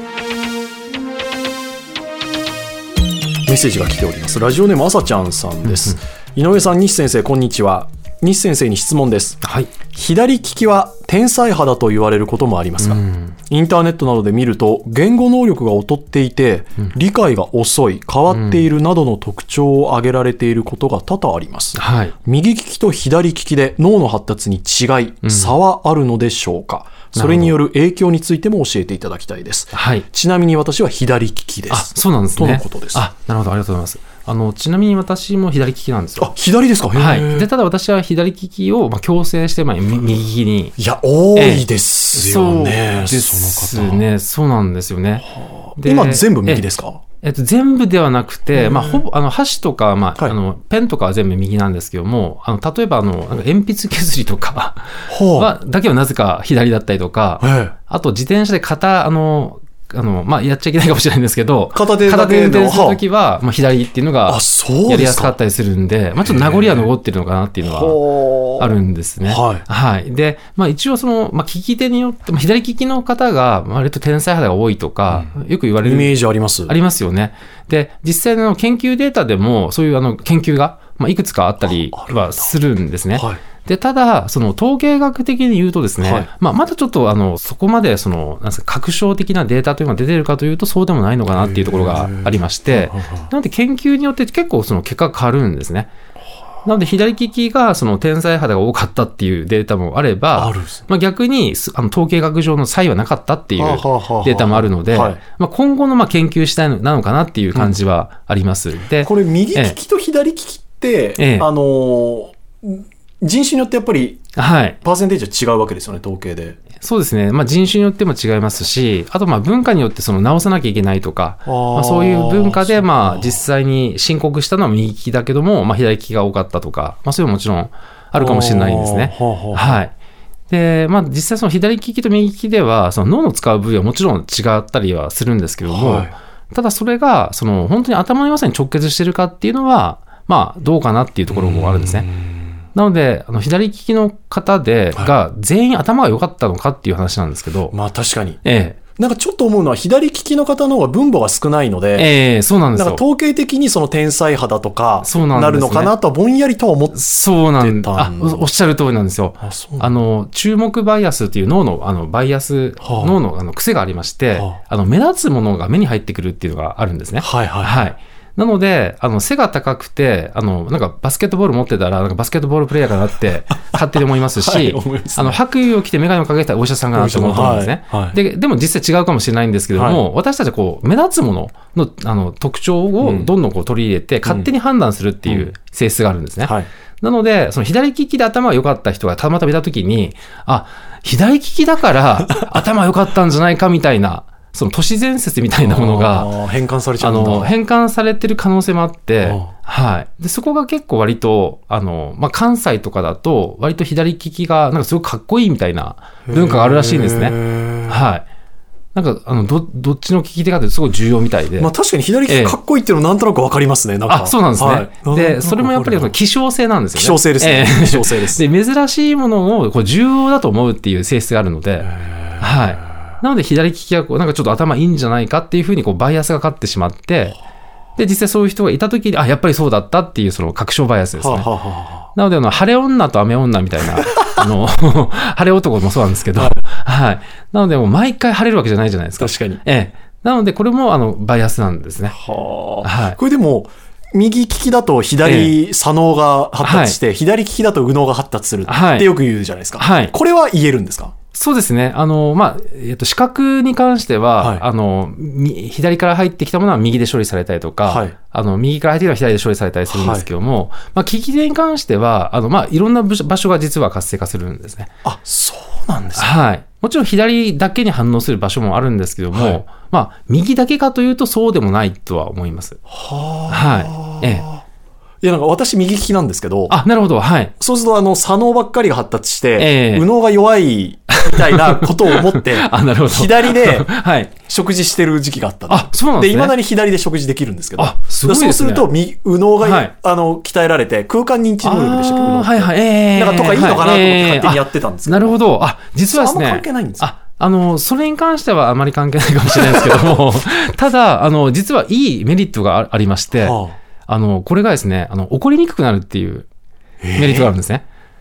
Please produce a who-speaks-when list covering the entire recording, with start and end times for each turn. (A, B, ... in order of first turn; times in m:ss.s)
0:03.4-0:09.4 A
0:05.6-0:06.0 B
0:09.4-0:09.7 B
0:09.9-0:33.0 A
0:12.8-0:13.3 B
0:18.3-0:18.6 B
0:21.8-0:22.1 B
0:25.2-0:25.5 B
0:27.1-0:27.6 B
0:29.7-0:30.0 B
0:31.7-0:36.3 B
0:36.2-0:37.5 A
0:36.9-0:40.7 B
0:40.8-0:44.0 A
0:41.3-0:46.6 B
0:45.2-0:47.0 A
0:47.2-1:35.9 B
0:48.5-0:49.0 A
0:55.1-0:55.5 A
0:57.4-0:57.7 A
1:01.7-1:03.0 A
1:04.3-1:05.3 A
1:06.2-1:06.9 A
1:07.6-1:09.6 A
1:15.8-1:16.7 A
1:21.6-1:22.5 A
1:23.1-1:23.4 A
1:26.0-1:26.3 A
1:31.3-1:33.3 A
1:36.6-1:49.8 B
1:40.4-1:40.8 A
1:43.6-1:45.2 A
1:49.0-1:54.2 A
1:51.2-1:51.5 B
1:54.4-1:54.8 B
1:54.8-1:56.6 A
1:56.8-2:09.9 B
2:01.4-2:03.4 A
2:08.1-2:09.8 A
2:10.5-2:22.1 B
2:15.6-2:16.1 A
2:21.3-2:22.4 A
2:22.7-2:27.7 B
2:27.7-2:28.4 A
2:28.4-2:28.8 B
2:29.0-2:32.1 A
2:31.9-2:33.0 B
2:32.7-2:37.0 A
2:35.0-2:35.9 B
2:36.9-3:16.3 B
2:37.6-2:38.5 A
2:39.4-2:39.9 A
2:42.8-2:43.2 A
2:47.2-2:47.8 A
2:54.4-2:55.4 A
2:56.9-2:58.2 A
2:59.7-3:00.0 A
3:03.0-3:03.3 A
3:04.2-3:04.5 A
3:05.2-3:05.5 A
3:15.6-3:17.5 A
3:17.0-3:28.2 B
3:19.2-3:19.5 A
3:26.3-3:28.1 A
3:28.9-3:31.7 B
3:31.6-3:36.1 A
3:32.3-3:32.6 B
3:34.1-3:47.4 B
3:36.9-3:38.4 A
3:41.8-3:42.7 A
3:48.0-3:51.5 B
3:51.2-3:52.1 A
3:52.1-4:02.2 B
3:56.3-3:56.6 A
3:59.2-3:59.6 A
4:02.1-4:11.1 A
4:02.8-4:03.2 B
4:05.2-4:05.6 B
4:06.6-4:07.0 B
4:08.7-4:09.1 B
4:09.8-4:10.1 B
4:11.3-4:24.9 B
4:14.4-4:14.6 A
4:17.9-4:18.1 A
4:19.9-4:20.3 A
4:25.0-4:26.3 A
4:26.2-4:32.8 B
4:29.3-4:29.6 A
4:32.9-4:34.6 A
4:33.5-4:34.5 B
4:35.2-4:36.8 A
4:36.7-4:37.5 B
4:37.6-4:43.9 A
4:39.6-4:40.1 B
4:41.2-4:44.3 B
4:44.5-4:55.4 A
4:45.7-4:46.6 B
4:47.8-4:48.9 B
4:49.6-4:49.9 B
4:51.6-5:06.5 B
4:56.1-4:57.1 A
4:59.5-5:00.2 A
5:03.4-5:03.8 A
5:07.0-5:07.5 A
5:07.1-5:07.8 B